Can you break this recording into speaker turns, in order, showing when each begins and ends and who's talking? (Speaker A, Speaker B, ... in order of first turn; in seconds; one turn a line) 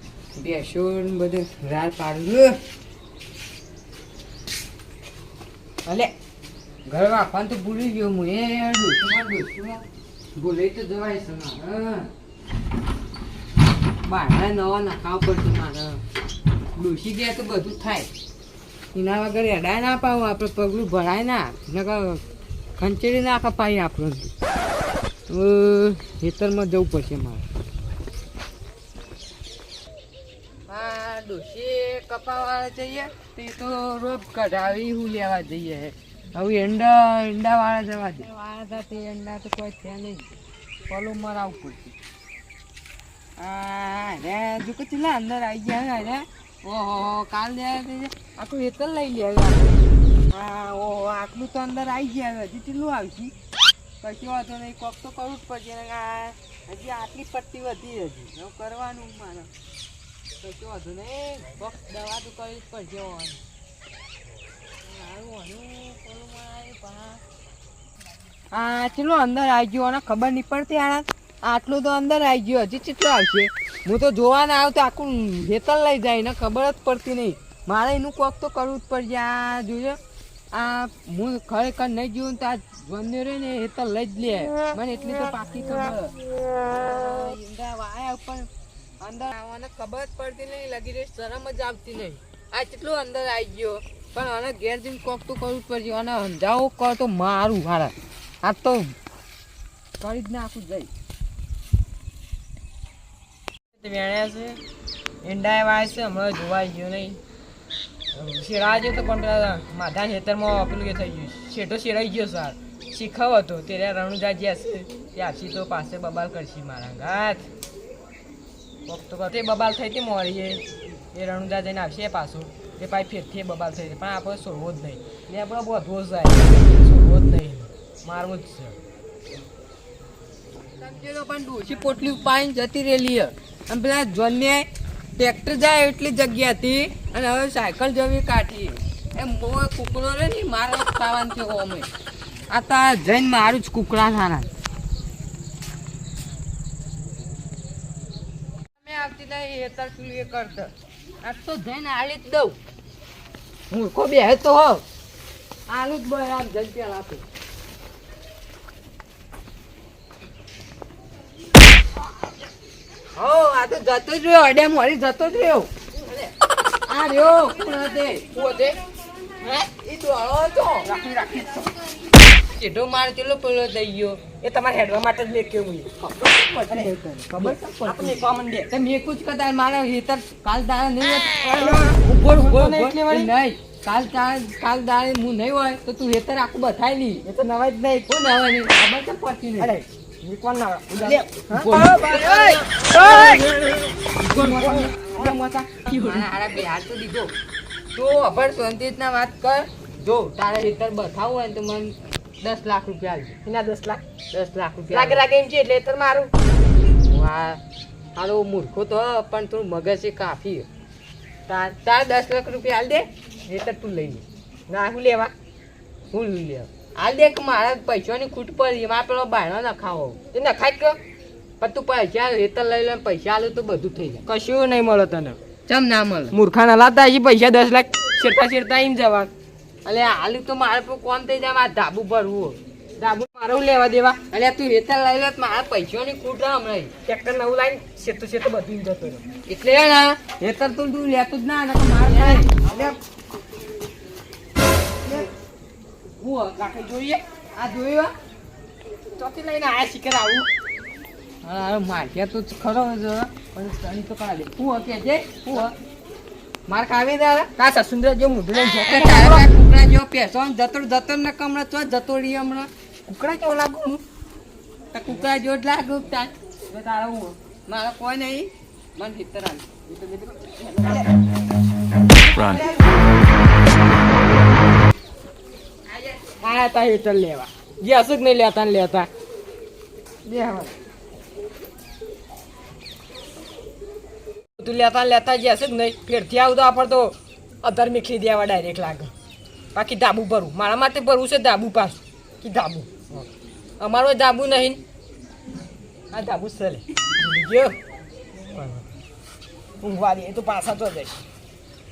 Speaker A: 0.4-2.6
Speaker A: 6.9-9.8
Speaker A: 10.4-12.1
Speaker A: 14.0-16.0
Speaker A: 16.8-18.1
Speaker A: 18.9-22.2
Speaker A: 22.8-24.3
Speaker A: 25.3-27.4
Speaker A: 30.7-40.3
Speaker A: 40.9-42.0
Speaker A: 43.4-53.3
Speaker A: 54.0-59.5
Speaker A: 60.4-63.4
Speaker A: 64.8-67.2
Speaker A: 68.5-80.0
Speaker A: 80.5-88.5
Speaker A: 89.0-98.9
Speaker A: 100.0-100.9
Speaker B: 103.8-104.6
Speaker B: 105.2-107.2
Speaker B: 108.1-117.5
Speaker B: 118.9-128.8
Speaker A: 130.8-141.9
Speaker A: 142.5-144.5
Speaker A: 148.8-150.7
Speaker A: 151.2-152.6
Speaker A: 153.7-154.8
Speaker A: 155.7-157.2
Speaker A: 163.2-166.3
Speaker A: 166.9-168.8
Speaker B: 169.4-169.7
Speaker A: 169.8-170.9
Speaker B: 170.8-171.7
Speaker A: 172.4-174.2
Speaker B: 174.4-175.9
Speaker A: 176.0-187.2
Speaker B: 176.7-178.7
Speaker B: 181.4-183.3
Speaker B: 187.2-188.1
Speaker A: 188.1-189.7
Speaker B: 189.6-196.3
Speaker A: 191.0-193.5
Speaker A: 194.2-195.0
Speaker A: 195.9-197.3
Speaker A: 197.9-203.4
Speaker B: 203.4-204.0
Speaker A: 204.3-205.2
Speaker B: 204.9-206.3
Speaker A: 207.1-207.6
Speaker A: 208.2-210.7
Speaker B: 211.5-211.8
Speaker A: 211.8-214.2
Speaker B: 214.7-215.3
Speaker A: 216.1-220.2
Speaker B: 220.3-221.0
Speaker A: 221.6-224.2
Speaker B: 224.3-225.4
Speaker A: 225.7-226.3
Speaker B: 226.3-229.3
Speaker A: 229.8-232.6
Speaker B: 233.0-234.2
Speaker A: 234.3-236.9
Speaker B: 237.1-239.2
Speaker A: 239.5-242.6
Speaker B: 242.0-243.0
Speaker B: 246.2-247.2
Speaker A: 247.6-248.1
Speaker B: 249.2-250.5
Speaker A: 251.4-255.7
Speaker A: 256.7-257.5
Speaker B: 257.6-259.5
Speaker A: 258.8-262.7
Speaker B: 263.1-264.0
Speaker A: 264.9-266.3
Speaker B: 266.7-267.4
Speaker A: 267.7-269.7
Speaker B: 269.9-271.1
Speaker B: 272.3-272.9
Speaker B: 276.3-279.1
Speaker A: 280.3-280.7
Speaker B: 284.6-289.1
Speaker B: 289.7-293.3
Speaker B: 293.8-294.8
Speaker B: 296.1-297.8
Speaker B: 298.5-298.9
Speaker B: 299.8-301.2